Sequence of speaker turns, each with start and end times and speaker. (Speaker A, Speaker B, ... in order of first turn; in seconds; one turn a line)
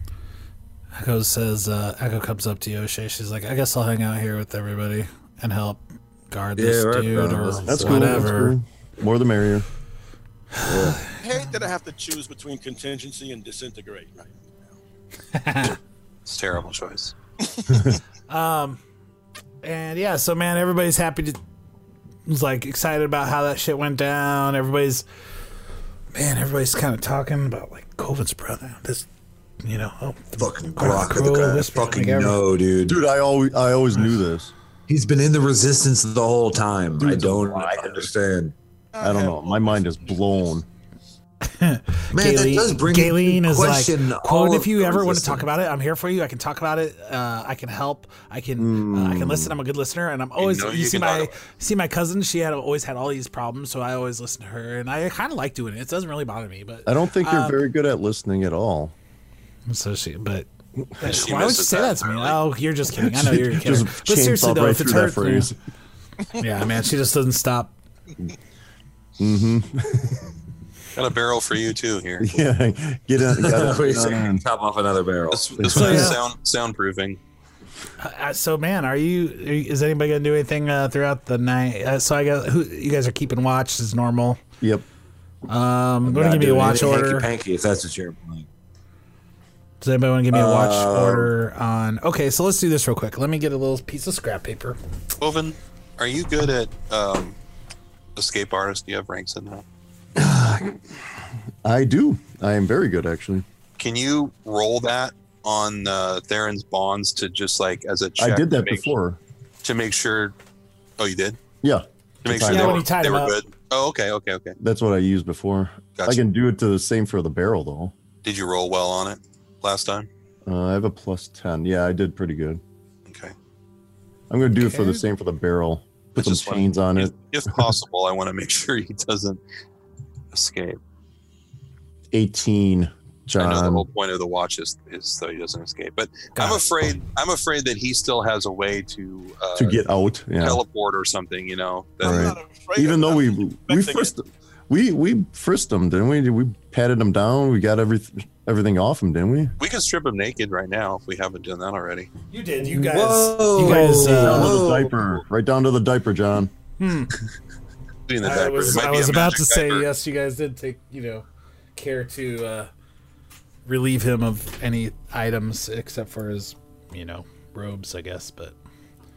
Speaker A: 1.0-8.6
Speaker B: 6.6-8.3
Speaker C: 7.7-9.7
Speaker A: 10.6-11.0
Speaker B: 10.6-11.1
Speaker D: 11.1-14.7
Speaker A: 15.3-15.8
Speaker E: 16.3-17.1
Speaker A: 18.3-18.8
Speaker A: 19.6-21.4
Speaker A: 22.3-25.1
Speaker A: 26.1-29.1
Speaker A: 29.6-32.4
Speaker B: 30.4-33.0
Speaker C: 32.9-34.5
Speaker B: 34.9-38.5
Speaker C: 37.0-38.1
Speaker D: 38.9-39.9
Speaker C: 39.0-40.7
Speaker A: 41.6-57.7
Speaker B: 42.1-45.5
Speaker C: 48.6-49.6
Speaker E: 50.4-51.3
Speaker C: 56.9-59.0
Speaker A: 59.7-60.5
Speaker A: 61.0-65.5
Speaker E: 61.0-62.4
Speaker C: 63.0-65.5
Speaker A: 66.4-67.7
Speaker C: 69.2-70.3
Speaker E: 71.0-72.3
Speaker C: 72.2-74.4
Speaker B: 73.2-76.1
Speaker E: 75.3-77.2
Speaker A: 75.7-76.2
Speaker A: 78.0-84.4
Speaker C: 84.6-84.8
Speaker A: 85.5-87.3
Speaker B: 86.0-88.5
Speaker A: 89.8-94.8
Speaker B: 90.3-91.3
Speaker E: 95.2-97.4
Speaker E: 98.2-99.7
Speaker C: 100.2-100.8
Speaker C: 101.6-103.5
Speaker E: 103.8-108.9
Speaker C: 108.2-109.2
Speaker E: 109.6-110.3
Speaker E: 111.0-111.4
Speaker C: 111.6-112.8
Speaker E: 112.2-114.6
Speaker A: 112.5-113.4
Speaker C: 114.6-117.9
Speaker E: 118.2-120.1
Speaker C: 120.5-122.6
Speaker E: 123.1-123.3
Speaker C: 124.3-127.7
Speaker A: 124.6-125.0
Speaker E: 126.2-129.4
Speaker E: 130.3-130.8
Speaker C: 132.1-133.8
Speaker E: 133.4-139.8
Speaker A: 136.3-136.7
Speaker C: 139.6-140.6
Speaker E: 140.4-142.3
Speaker D: 142.0-144.1
Speaker C: 142.0-149.5
Speaker E: 149.6-152.1
Speaker A: 152.3-154.6
Speaker B: 152.6-154.9
Speaker C: 153.6-156.5
Speaker A: 156.8-157.1
Speaker E: 158.1-159.9
Speaker A: 158.2-162.7
Speaker A: 163.7-168.6